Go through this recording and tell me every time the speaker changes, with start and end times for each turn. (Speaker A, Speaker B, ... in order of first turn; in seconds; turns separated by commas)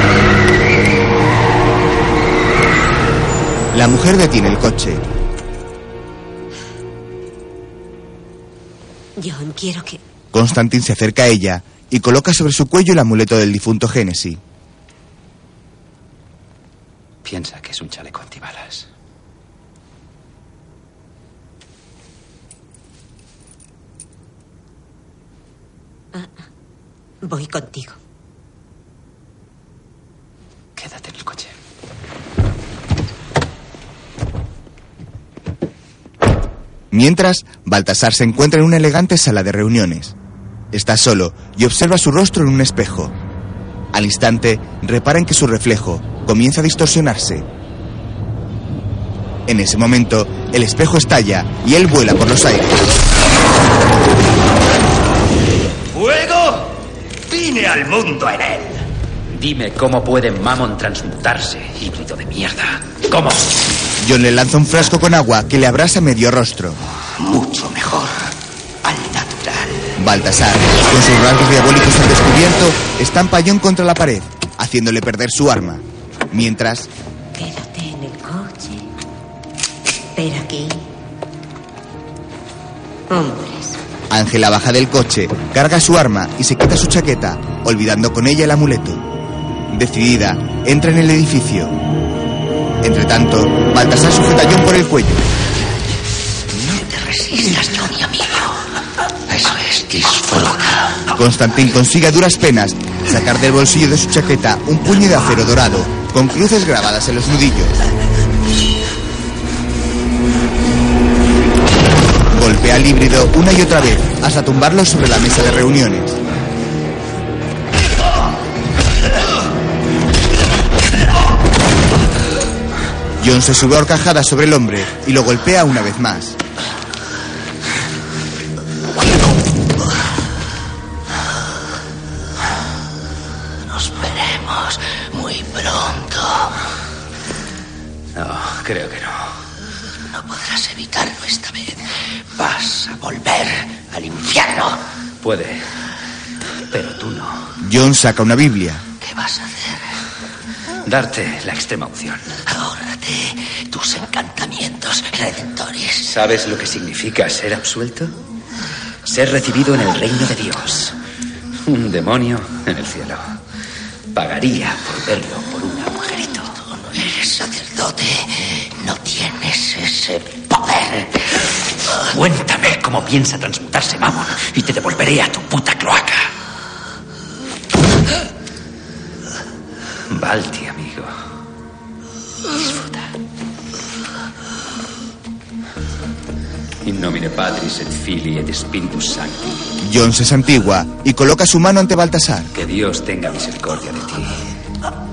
Speaker A: 3.7-5.0, Speaker B: 9.2-10.0, Speaker A: 10.3-14.4, Speaker C: 17.2-18.9, Speaker B: 26.1-26.5, Speaker B: 27.2-28.0, Speaker C: 30.8-31.5, Speaker A: 36.9-40.1, Speaker A: 40.7-43.1, Speaker A: 43.9-47.5, Speaker A: 49.5-53.0, Speaker D: 57.3-58.7, Speaker C: 59.3-63.6, Speaker A: 64.0-66.8, Speaker D: 67.2-68.3, Speaker D: 68.8-69.8, Speaker A: 70.0-76.9, Speaker B: 77.3-78.9, Speaker B: 80.2-80.9, Speaker B: 83.1-83.8, Speaker A: 84.1-89.0, Speaker A: 89.7-91.8, Speaker A: 92.8-95.2, Speaker D: 96.5-98.6, Speaker D: 99.3-101.1, Speaker A: 101.2-107.8, Speaker A: 112.3-116.2, Speaker A: 123.2-126.4, Speaker D: 133.7-136.6, Speaker C: 138.2-139.4, Speaker D: 140.0-144.8, Speaker C: 145.2-145.8, Speaker C: 146.7-147.5, Speaker A: 147.6-148.8, Speaker D: 149.0-150.0, Speaker C: 150.9-152.4, Speaker D: 152.5-156.2, Speaker C: 156.1-158.2, Speaker C: 159.1-161.0, Speaker C: 161.6-163.3, Speaker C: 164.1-166.3, Speaker D: 166.1-171.4, Speaker C: 172.1-176.3, Speaker C: 180.1-181.1, Speaker C: 182.6-183.1, Speaker C: 186.8-189.6, Speaker A: 189.8-192.5, Speaker C: 192.5-194.4